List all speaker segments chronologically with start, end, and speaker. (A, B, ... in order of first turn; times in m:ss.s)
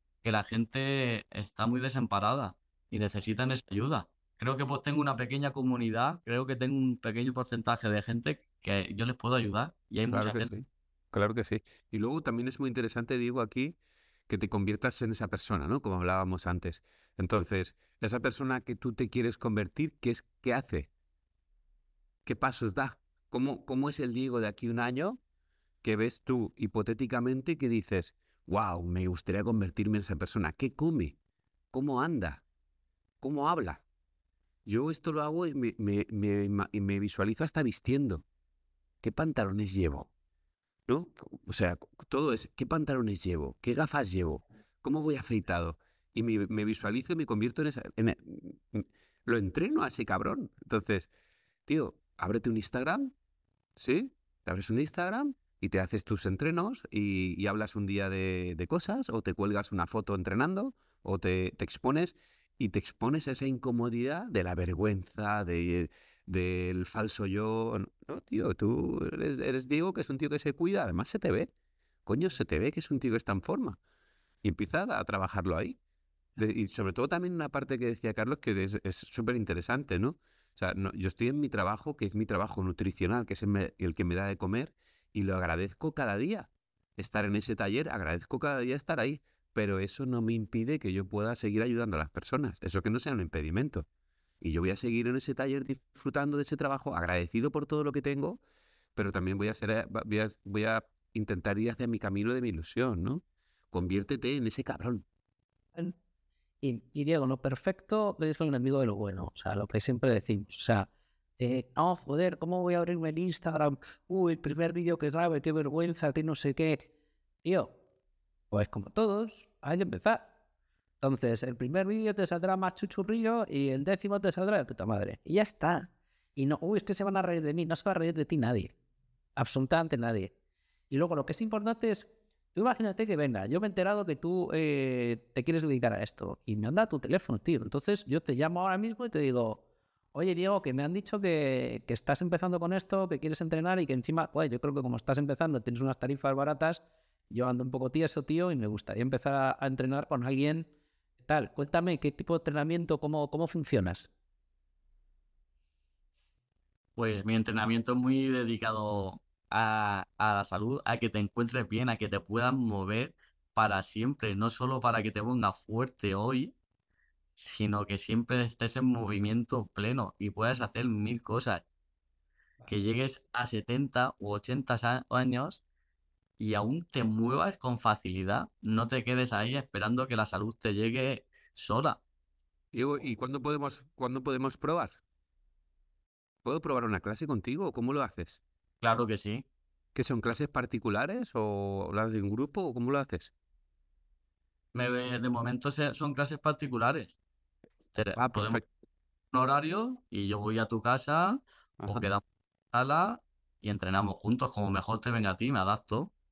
0:00.2-0:10.5 A
0:10.1-0:13.8 B
0:14.3-0:20.9 B
0:22.2-0:25.2 B
0:25.8-0:31.2 B
0:31.7-0:32.4 B
0:33.2-0:33.8 B
0:34.7-0:38.2 B
0:39.0-0:40.1 B
0:40.9-0:51.1 B
0:51.7-0:53.1 B
0:53.8-1:11.5 B
1:12.1-1:13.8 B
1:14.4-1:15.8 B
1:16.4-1:33.9 B
1:34.4-1:38.4 B
1:39.0-1:45.0 B
1:46.6-1:56.9 C
1:57.4-1:57.8 C
1:58.5-2:00.3 C
2:01.0-2:08.7 C
2:09.4-2:10.3 C
2:10.9-2:19.6 C
2:20.1-2:30.7 C
2:31.2-2:34.1 C
2:37.0-2:46.5 A
2:47.4-2:51.6 A
2:52.7-2:55.6 A
2:56.4-3:02.0 A
3:02.7-3:05.0 B
3:06.4-3:08.4 B
3:08.8-3:09.4 A
3:10.0-3:13.3 B
3:14.7-3:17.2 A
3:18.0-3:18.6 A
3:18.2-3:18.7 B
3:19.3-3:26.1 A
3:21.8-3:22.1 B